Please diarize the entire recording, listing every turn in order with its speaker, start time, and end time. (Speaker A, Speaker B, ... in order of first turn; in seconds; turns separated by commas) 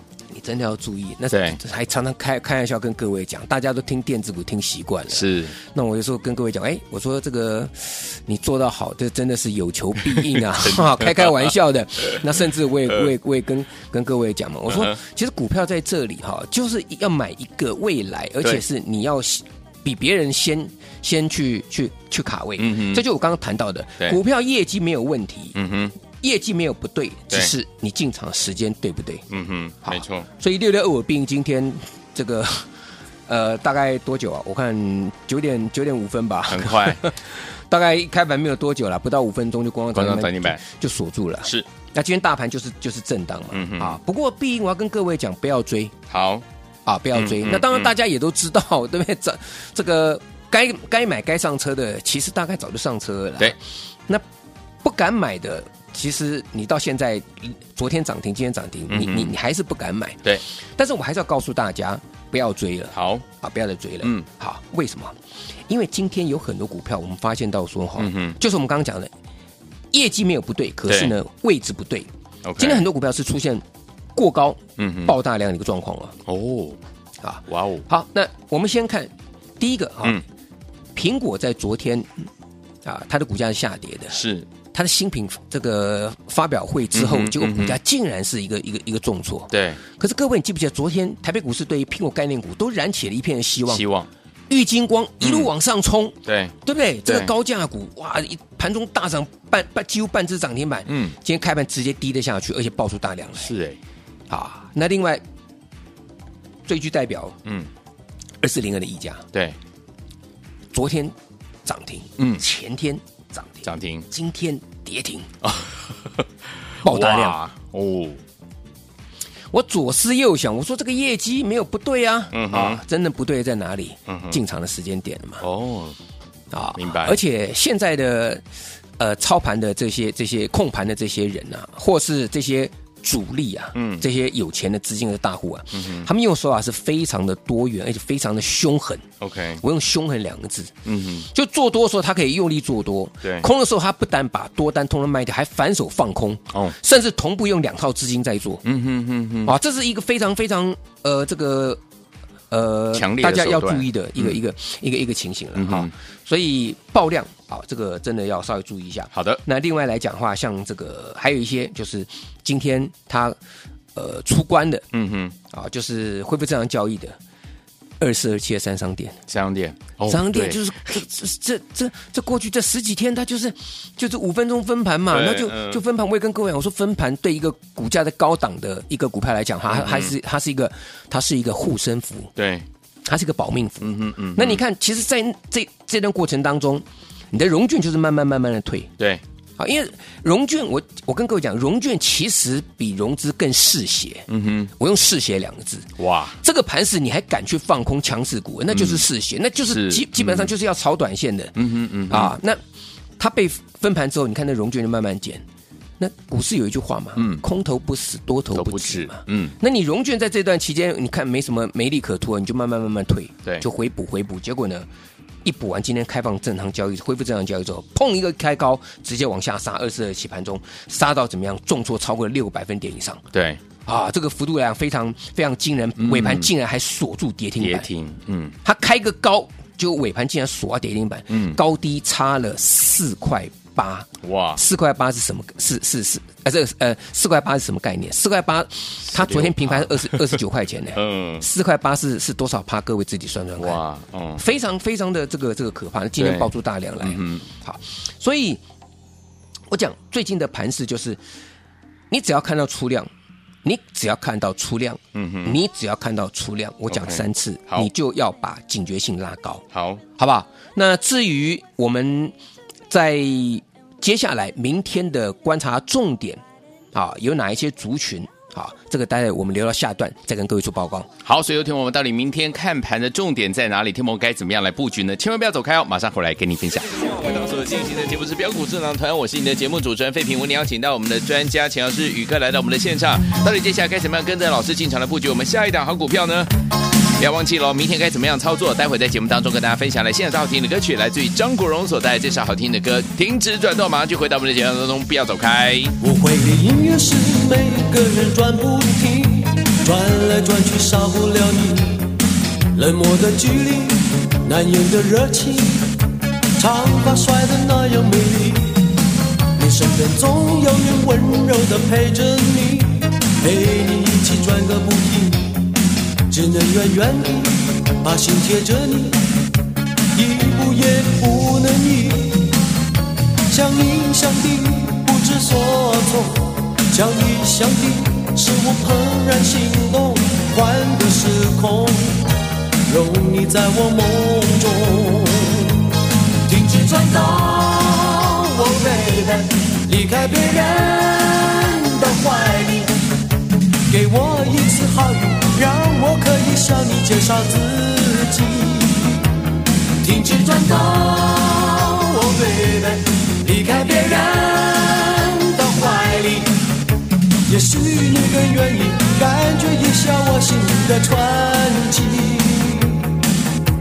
Speaker A: 0.3-25.6, Speaker B: 1.3-1.6, Speaker B: 5.1-5.5, Speaker B: 22.6-23.0, Speaker B: 25.6-25.9, Speaker A: 26.2-29.2, Speaker B: 29.3-30.3, Speaker A: 29.8-32.7, Speaker A: 33.3-45.9, Speaker B: 36.5-37.0, Speaker B: 39.9-40.6, Speaker B: 43.5-44.0, Speaker B: 46.1-46.5, Speaker A: 46.9-54.2, Speaker B: 47.1-47.9, Speaker A: 54.8-65.2, Speaker B: 58.9-59.3, Speaker B: 62.9-63.2, Speaker A: 65.7-69.1, Speaker B: 68.0-68.4, Speaker A: 69.9-73.6, Speaker B: 70.9-71.2, Speaker B: 72.5-72.8, Speaker A: 74.2-76.2, Speaker B: 74.8-75.1, Speaker B: 76.3-76.8, Speaker A: 77.2-80.2, Speaker B: 77.5-77.8, Speaker A: 81.0-82.3, Speaker A: 82.8-84.2, Speaker B: 84.1-84.5, Speaker A: 84.7-93.9, Speaker B: 86.9-87.8, Speaker B: 89.5-89.8, Speaker B: 93.7-94.1, Speaker A: 94.5-103.5, Speaker B: 95.2-95.5, Speaker B: 96.3-96.5, Speaker B: 97.1-97.3, Speaker B: 100.9-101.2, Speaker B: 103.4-103.8, Speaker A: 104.3-105.2, Speaker A: 106.7-107.4, Speaker A: 108.4-109.2, Speaker A: 110.7-115.3, Speaker B: 113.6-114.0, Speaker B: 115.4-116.2, Speaker B: 116.8-118.2, Speaker A: 116.8-117.4, Speaker A: 119.5-125.4, Speaker B: 122.3-122.8, Speaker B: 124.1-124.4, Speaker B: 125.4-126.0, Speaker A: 126.5-128.4, Speaker B: 126.8-127.2, Speaker A: 129.0-139.1, Speaker B: 133.8-134.1, Speaker B: 135.7-136.1, Speaker B: 139.2-139.6, Speaker A: 139.6-140.7, Speaker B: 140.8-141.3, Speaker A: 141.3-148.6, Speaker B: 148.6-149.5, Speaker A: 149.4-151.8, Speaker A: 152.5-163.4, Speaker B: 152.9-154.4, Speaker B: 155.6-155.9, Speaker B: 159.1-159.4, Speaker A: 163.9-164.8, Speaker B: 164.9-165.3, Speaker A: 165.5-167.2, Speaker A: 168.0-169.2, Speaker B: 169.3-170.6, Speaker A: 170.1-182.3, Speaker B: 175.1-175.8, Speaker B: 179.7-180.1, Speaker B: 182.4-182.7, Speaker A: 183.1-188.9, Speaker B: 183.8-184.6, Speaker A: 189.6-194.3, Speaker B: 194.3-194.7, Speaker A: 194.8-195.9, Speaker B: 196.0-196.4, Speaker A: 196.4-201.6, Speaker B: 198.7-199.1, Speaker B: 199.7-200.5, Speaker B: 201.6-202.3, Speaker A: 202.1-202.6, Speaker A: 203.2-205.4, Speaker A: 206.0-214.9, Speaker B: 207.2-207.4, Speaker B: 208.5-209.6, Speaker A: 215.4-223.2, Speaker B: 223.3-223.6, Speaker A: 223.9-227.9, Speaker B: 226.0-226.5, Speaker B: 227.6-228.6, Speaker A: 228.6-243.8, Speaker B: 231.3-231.6, Speaker B: 234.2-234.6, Speaker B: 239.1-240.4, Speaker B: 240.9-241.4, Speaker B: 243.6-244.4, Speaker A: 244.4-248.6, Speaker B: 246.2-246.5, Speaker B: 247.0-247.5, Speaker A: 249.7-251.2, Speaker A: 252.1-253.1, Speaker A: 253.6-259.6, Speaker B: 255.2-255.6, Speaker B: 256.9-257.9, Speaker B: 259.7-260.0, Speaker A: 260.2-262.4, Speaker A: 262.9-266.4, Speaker A: 266.9-271.1, Speaker B: 271.2-286.5, Speaker B: 287.2-296.0, Speaker C: 296.0-302.2, Speaker C: 302.7-306.0, Speaker C: 306.6-308.9, Speaker C: 309.6-315.8, Speaker C: 316.3-319.2, Speaker C: 320.1-322.6, Speaker C: 323.5-332.3, Speaker C: 332.9-335.9, Speaker C: 336.5-342.9, Speaker C: 343.9-349.3, Speaker C: 350.0-356.5, Speaker C: 357.5-363.2